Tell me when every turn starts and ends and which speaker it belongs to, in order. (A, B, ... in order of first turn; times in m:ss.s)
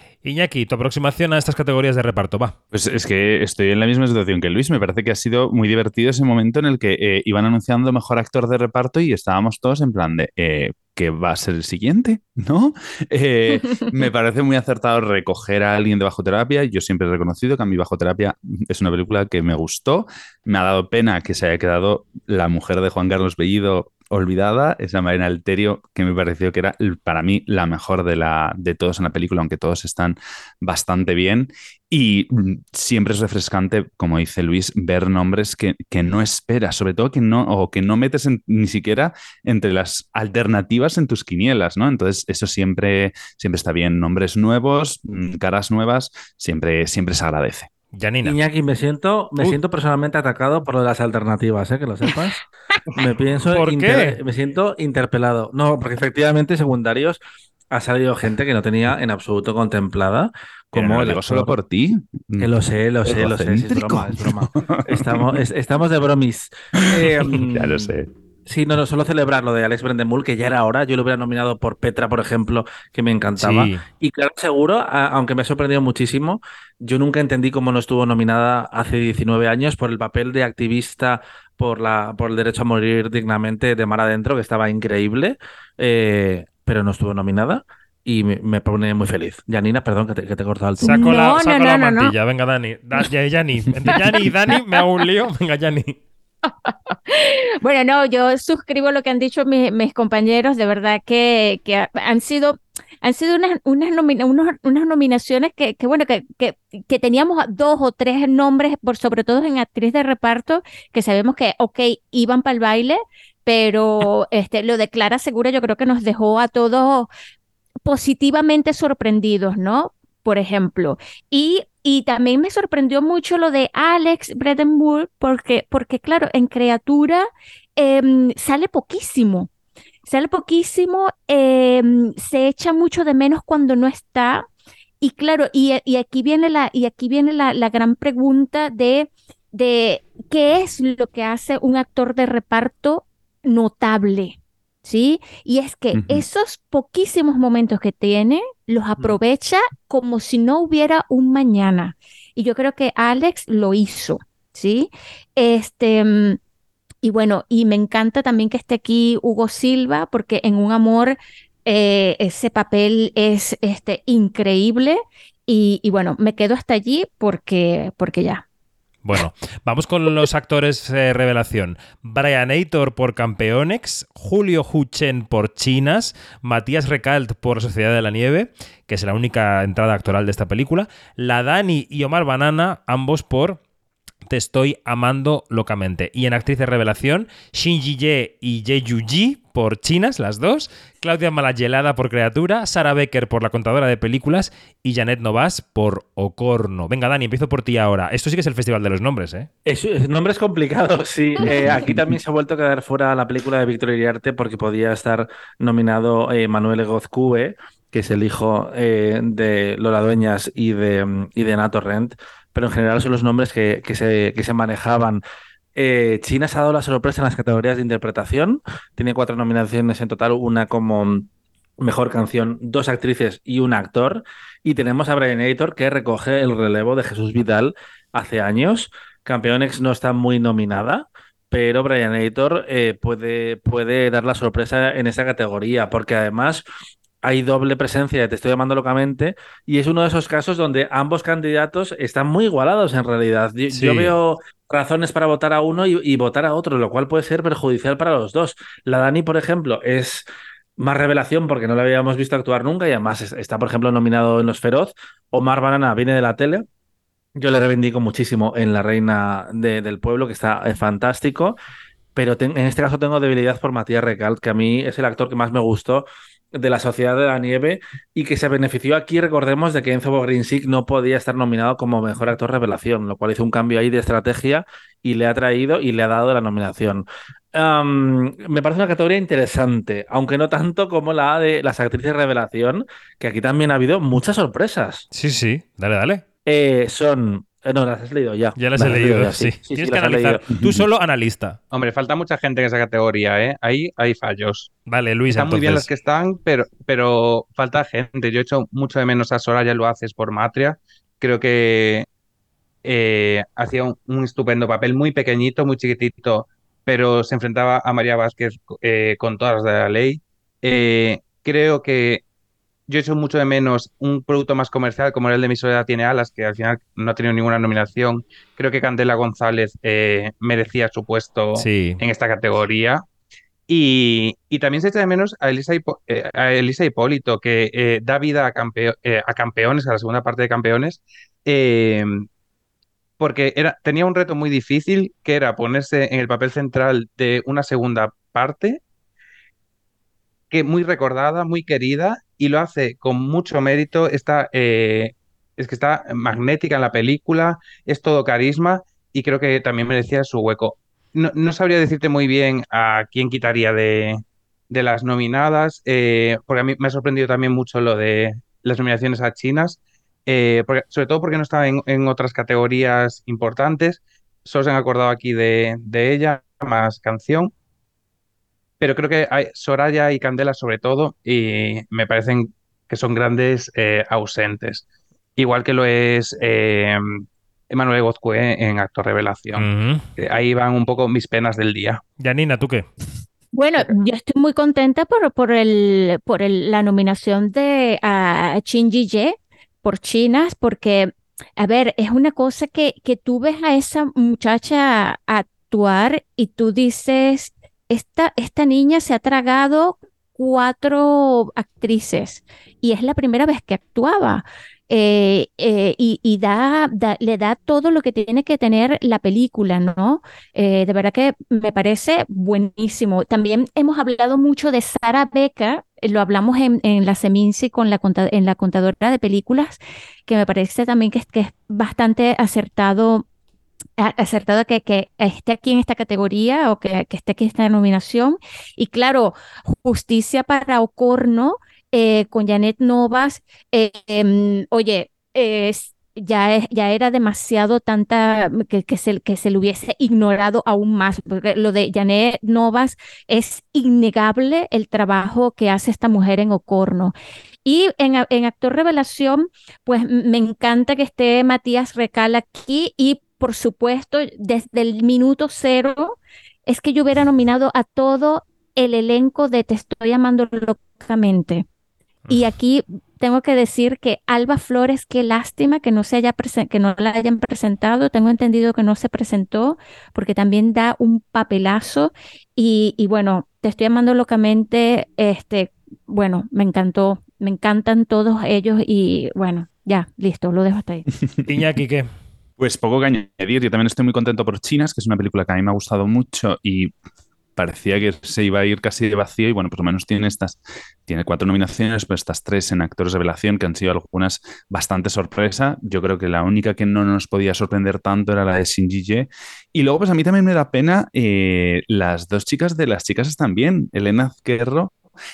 0:00.2-0:02.5 A
0:02.7-0:47.7 B
0:47.9-0:48.4 A
0:48.2-0:52.4 C
0:53.0-0:57.2 C
0:53.5-0:54.2 A
0:57.7-1:01.6 C
1:00.7-1:02.5 B
1:02.4-1:07.8 C
1:03.0-1:05.4 B
1:06.8-1:08.1 B
1:08.4-1:31.1 C
1:13.4-1:13.8 A
1:30.8-1:36.0 A
1:30.8-1:32.1 D
1:36.4-1:57.1 D
1:57.8-2:09.5 D
2:10.0-2:14.4 D
2:15.0-2:36.4 D
2:25.9-2:26.2 B
2:37.0-2:48.4 D
2:49.0-3:03.6 A
3:04.3-3:19.5 A
3:19.6-3:35.2 C
3:35.8-3:41.3 C
3:41.8-3:56.6 C
3:57.2-4:10.2 C
4:03.7-4:04.2 A
4:10.8-4:16.6 C
4:17.4-4:21.6 C
4:22.2-4:45.0 C
4:45.1-4:46.2 A
4:46.5-4:50.4 C
4:48.6-4:51.6 A
4:51.7-4:54.7 E
4:54.9-4:55.9 A
4:55.3-5:02.0 E
5:02.8-5:12.2 E
5:12.9-5:23.0 E
5:21.6-5:22.0 A
5:23.7-5:32.2 E
5:33.2-5:38.8 E
5:40.5-6:07.5 E
6:08.8-6:14.8 E
6:15.4-6:19.7 E
6:19.6-6:20.0 A
6:20.2-6:22.0 E
6:22.2-6:22.9 A
6:23.5-7:03.2 D
7:04.0-7:41.6 D
7:42.3-8:01.0 D
8:01.5-8:02.1 A
8:02.6-8:06.9 B
8:07.6-8:24.9 B